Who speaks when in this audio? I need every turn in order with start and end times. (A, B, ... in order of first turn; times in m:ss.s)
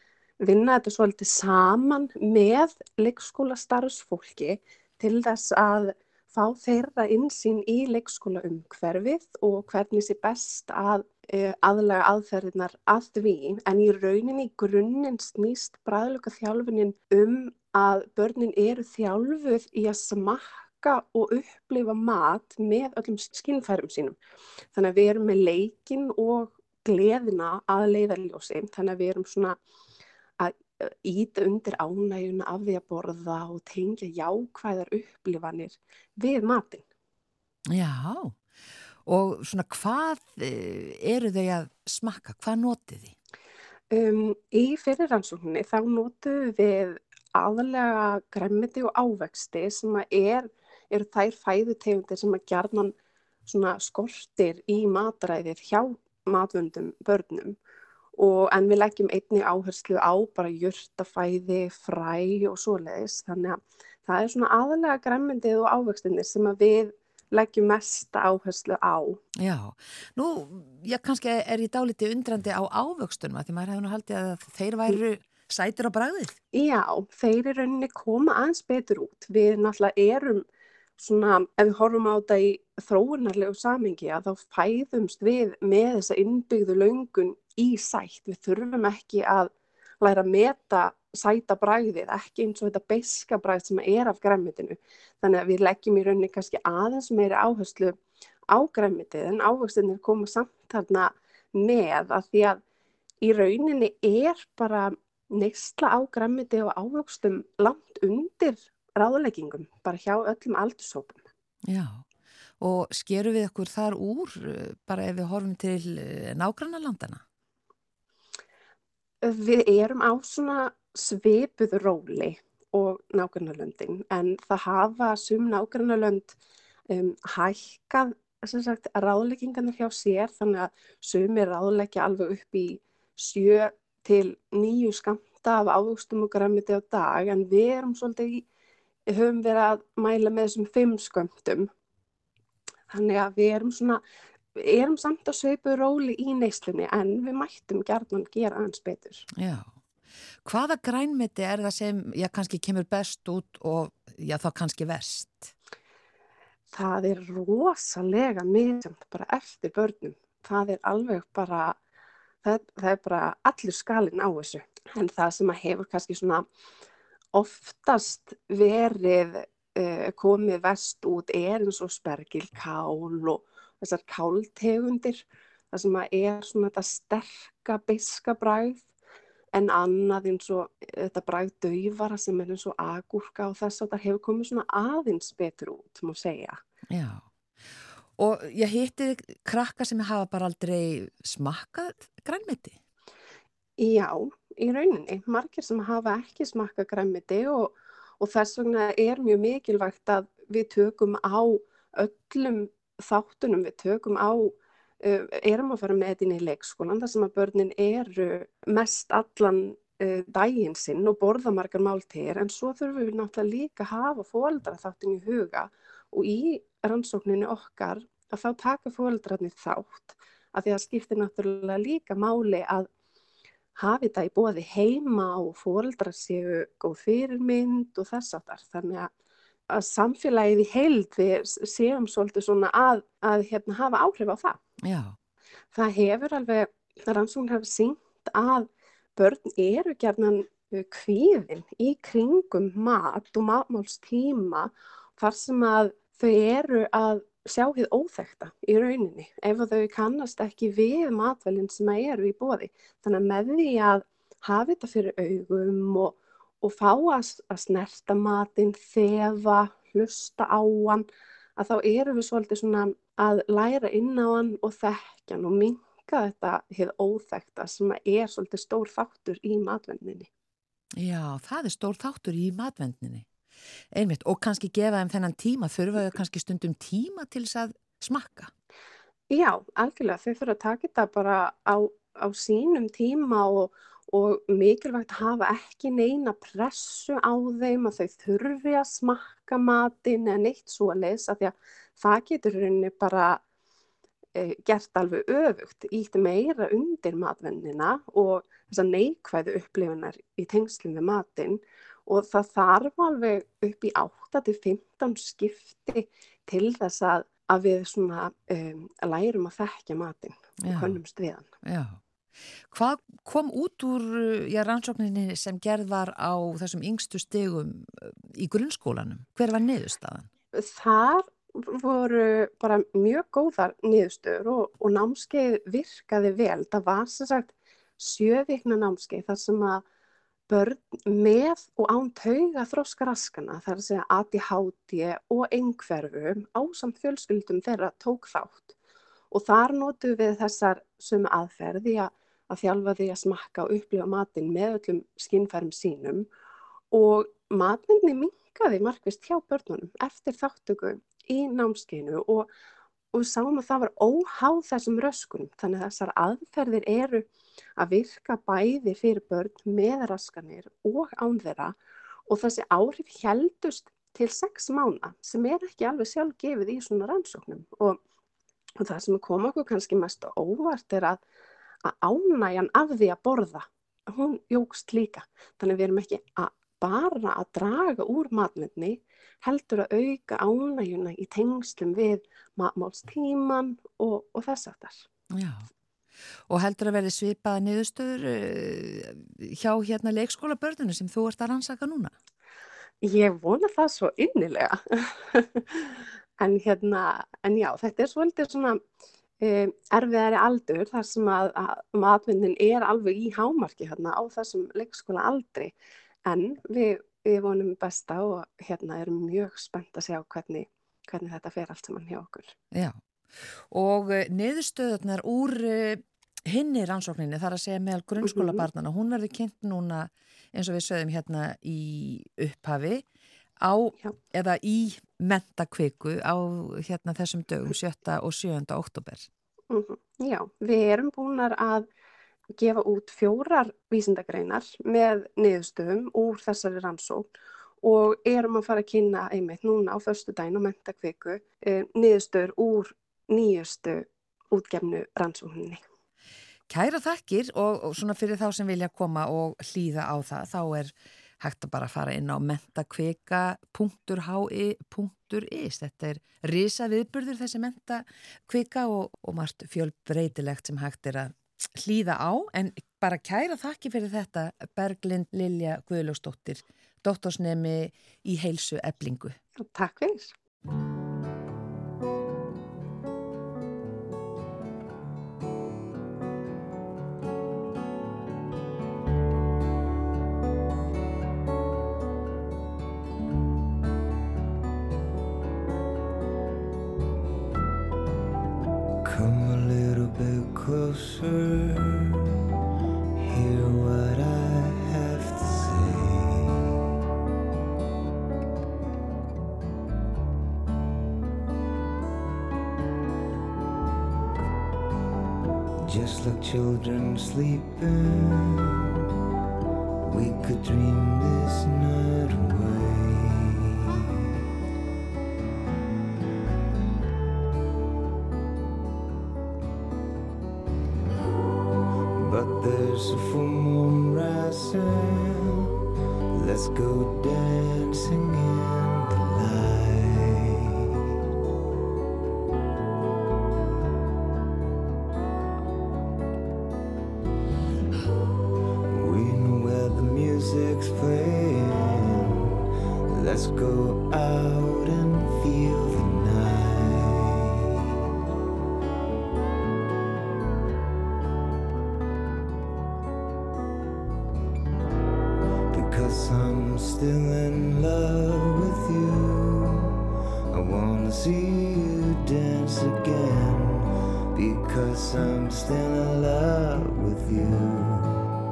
0:00.4-0:24.2 A
0:24.7-0:29.6 A
0:30.4-0:36.8 A
0:37.7-0:38.4 B
0:39.1-0:43.1 B
0:43.9-0:52.9 A
0:53.4-0:57.6 A
0:58.2-1:09.2 A
1:09.4-1:16.4 B
1:16.5-1:20.4 A
1:21.0-1:38.0 A
1:38.5-1:42.6 A
1:43.2-1:51.2 A
1:51.7-1:52.0 B
1:52.6-1:57.2 B
1:59.2-2:06.4 A
2:06.9-2:18.4 A
2:19.1-2:21.7 A
2:22.9-2:24.0 A
2:24.6-2:29.3 A
2:29.4-2:29.7 B
2:30.4-2:35.5 B
2:36.7-2:41.8 A
2:42.4-2:46.5 A
2:47.3-2:58.9 A
2:59.5-3:06.6 A
3:06.9-3:07.2 B
3:08.2-3:12.8 B
3:13.8-3:42.9 A
3:43.8-3:49.1 A
3:49.7-3:54.6 A
3:54.8-3:55.2 B
3:55.7-4:21.1 A
4:21.6-4:30.3 A
4:31.0-4:33.3 B
4:33.9-4:38.5 B
4:39.3-4:53.4 A
4:54.4-5:11.5 A
5:10.6-5:11.0 B
5:11.6-5:12.0 B
5:12.7-5:20.3 B
5:20.5-5:29.8 A
5:30.5-5:38.7 A
5:39.3-5:46.3 A
5:46.9-5:52.5 A
5:53.1-6:01.8 A
6:02.3-6:08.0 A
6:08.8-6:11.2 A
6:11.8-6:25.0 A
6:25.3-6:25.7 B
6:26.5-6:32.1 B
6:33.0-6:38.8 A
6:39.4-6:45.7 A
6:46.2-6:52.6 A
6:53.7-7:03.0 B
6:58.2-6:58.7 A
7:03.6-7:09.3 B
7:09.7-7:11.9 A
7:12.5-7:17.3 A
7:17.8-7:25.8 A
7:26.7-7:49.4 B
7:49.6-7:50.3 A
8:09.0-8:12.2 C
8:13.2-8:16.6 C
8:25.8-8:28.8 C
8:30.0-8:34.0 C
8:42.2-8:45.6 C
8:46.3-8:50.6 C
8:58.9-9:02.4 C
9:03.1-9:07.6 C
9:15.7-9:19.9 C
9:20.5-9:28.2 C